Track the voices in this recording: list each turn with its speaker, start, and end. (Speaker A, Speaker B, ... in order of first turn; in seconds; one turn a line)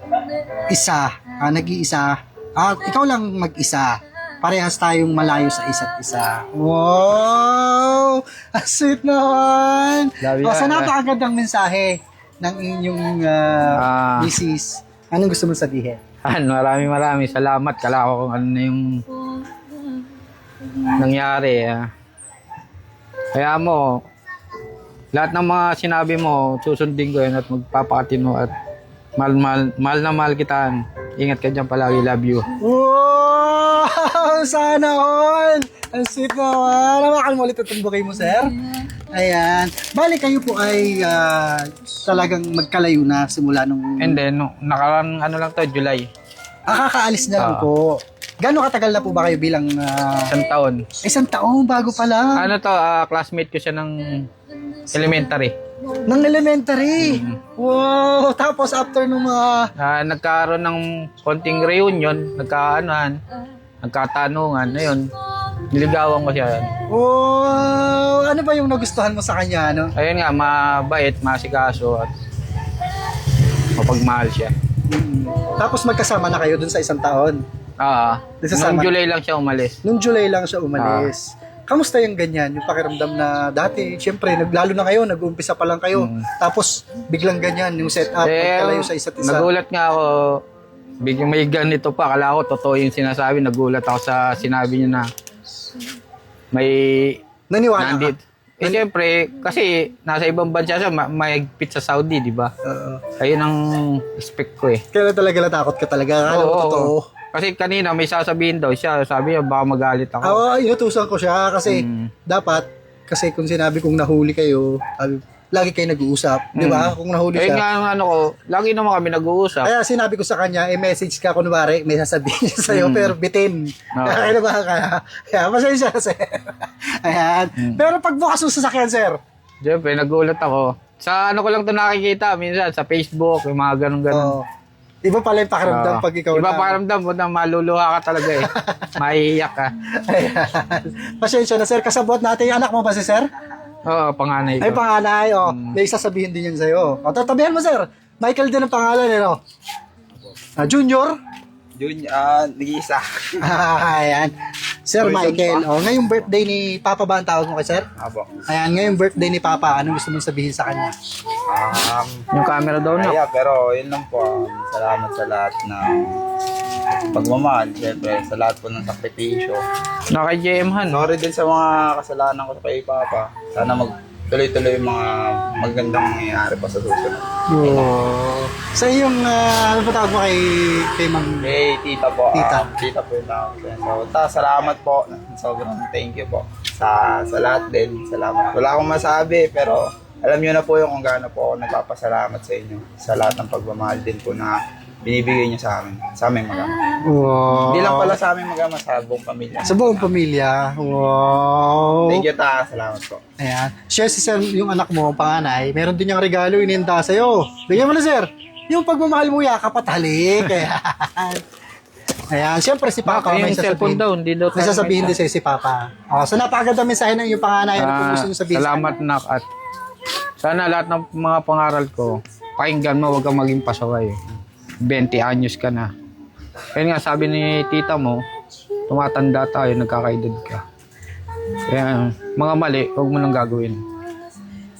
Speaker A: 0.7-16.0
Speaker B: 10.2-10.9
Speaker B: 13.8-14.3
Speaker B: 16.2-19.0
Speaker B: 20.8-21.9
Speaker B: 23.3-24.0
Speaker B: 25.1-28.5
Speaker B: 29.2-32.5
Speaker A: 32.6-38.5
Speaker A: 39.1-44.2
Speaker B: 44.0-46.1
Speaker A: 46.7-50.3
Speaker B: 47.4-47.7
Speaker B: 50.3-50.8
Speaker A: 51.0-52.5
Speaker B: 52.4-54.3
Speaker B: 54.9-55.5
Speaker A: 56.1-59.7
Speaker B: 57.0-57.4
Speaker B: 59.8-63.2
Speaker B: 63.8-65.1
Speaker B: 65.7-66.7
Speaker A: 66.9-69.9
Speaker B: 70.0-72.1
Speaker B: 73.8-74.5
Speaker A: 74.9-77.4
Speaker B: 77.8-79.8
Speaker A: 78.4-78.9
Speaker A: 79.8-89.5
Speaker B: 80.8-81.1
Speaker B: 85.9-86.2
Speaker B: 88.2-90.4
Speaker B: 91.0-95.1
Speaker B: 96.5-97.2
Speaker A: 97.5-98.8
Speaker B: 97.8-102.5
Speaker A: 102.6-103.0
Speaker B: 103.2-104.8
Speaker A: 104.9-107.1
Speaker B: 106.2-110.4
Speaker A: 110.2-117.6
Speaker B: 111.7-112.1
Speaker B: 116.5-119.7
Speaker A: 119.6-129.2
Speaker B: 122.7-123.2
Speaker B: 124.0-124.3
Speaker B: 129.6-134.3
Speaker A: 134.1-134.4
Speaker A: 135.0-136.8
Speaker B: 135.7-139.7
Speaker A: 138.3-138.9
Speaker A: 140.0-143.3
Speaker B: 143.8-144.8
Speaker A: 144.6-149.4
Speaker B: 145.4-145.7
Speaker A: 150.6-151.1
Speaker C: 151.8-153.2
Speaker A: 153.4-154.3
Speaker A: 154.8-157.8
Speaker C: 155.0-156.1
Speaker C: 158.0-158.3
Speaker A: 158.5-160.9
Speaker C: 161.5-162.3
Speaker B: 162.3-163.2
Speaker C: 162.9-166.2
Speaker C: 167.1-169.6
Speaker B: 170.1-171.1
Speaker C: 170.9-177.9
Speaker A: 177.5-181.5
Speaker C: 181.4-196.8
Speaker A: 182.3-182.7
Speaker A: 197.1-198.1
Speaker C: 197.7-200.1
Speaker A: 199.6-202.2
Speaker C: 202.1-203.2
Speaker A: 203.4-211.4
Speaker A: 212.3-219.0
Speaker B: 213.1-215.2
Speaker B: 217.8-219.4
Speaker B: 220.4-224.2
Speaker B: 224.8-225.9
Speaker B: 226.7-228.2
Speaker B: 228.9-230.6
Speaker B: 231.7-233.8